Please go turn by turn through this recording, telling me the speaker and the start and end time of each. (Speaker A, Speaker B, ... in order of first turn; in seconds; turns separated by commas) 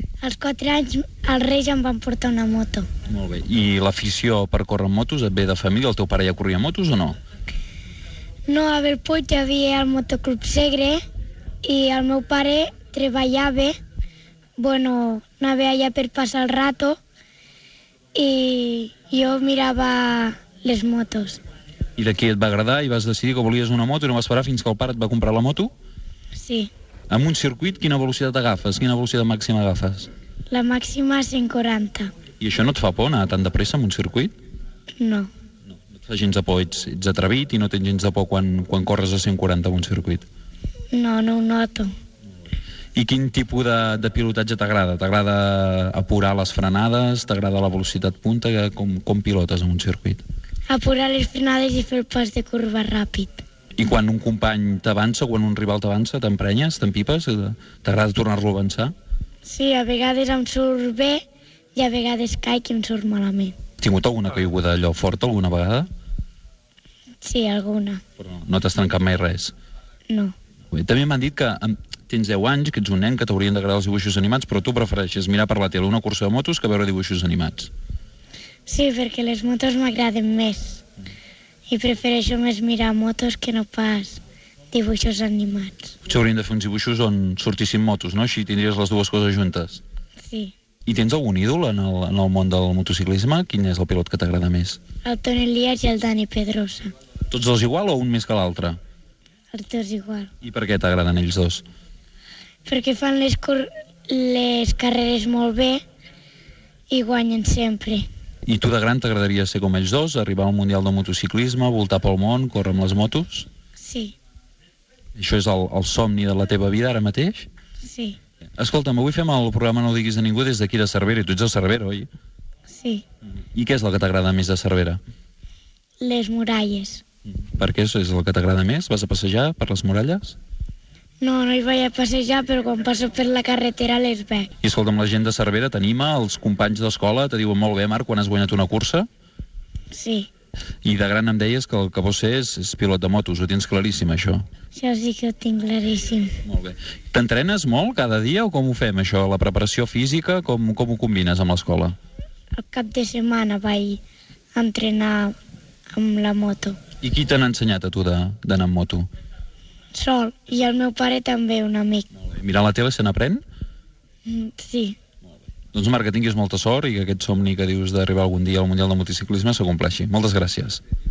Speaker A: 0.2-2.9, Speaker B: 3.1-7.2, Speaker A: 8.5-11.0, Speaker A: 11.6-13.8, Speaker A: 14.6-17.0, Speaker A: 18.1-21.4, Speaker B: 22.0-25.7, Speaker A: 26.4-26.7, Speaker B: 27.1-30.1, Speaker A: 30.5-32.1, Speaker B: 32.4-34.3, Speaker A: 35.0-35.3, Speaker B: 35.9-40.2, Speaker A: 40.9-41.9, Speaker B: 42.9-50.2, Speaker A: 50.7-53.4, Speaker B: 53.8-58.9, Speaker A: 59.4-61.2, Speaker A: 61.7-63.5, Speaker B: 63.8-65.9, Speaker A: 67.2-68.0, Speaker B: 68.2-69.5, Speaker A: 70.1-70.3, Speaker B: 70.7-77.7, Speaker A: 78.7-80.8, Speaker A: 81.7-85.9, Speaker B: 86.0-89.8, Speaker A: 90.2-90.5, Speaker B: 90.8-94.8, Speaker A: 95.0-96.9, Speaker B: 97.3-98.8, Speaker A: 99.5-100.3, Speaker B: 100.4-101.6, Speaker A: 102.7-105.8, Speaker A: 106.9-108.1, Speaker B: 108.5-113.5, Speaker A: 113.8-114.1, Speaker B: 115.2-117.5, Speaker A: 117.8-118.2, Speaker B: 118.6-122.1, Speaker A: 122.7-123.0, Speaker B: 123.5-125.0, Speaker A: 126.0-127.0, Speaker B: 127.4-130.4, Speaker A: 131.2-134.5, Speaker B: 134.6-139.1, Speaker A: 139.9-140.3, Speaker B: 140.8-144.4, Speaker A: 144.7-146.4, Speaker B: 146.4-151.9, Speaker A: 152.6-154.0, Speaker A: 154.5-155.4, Speaker A: 155.9-156.8, Speaker B: 157.0-159.1, Speaker A: 159.9-162.1, Speaker B: 162.2-163.4, Speaker A: 164.2-165.0, Speaker B: 165.7-170.8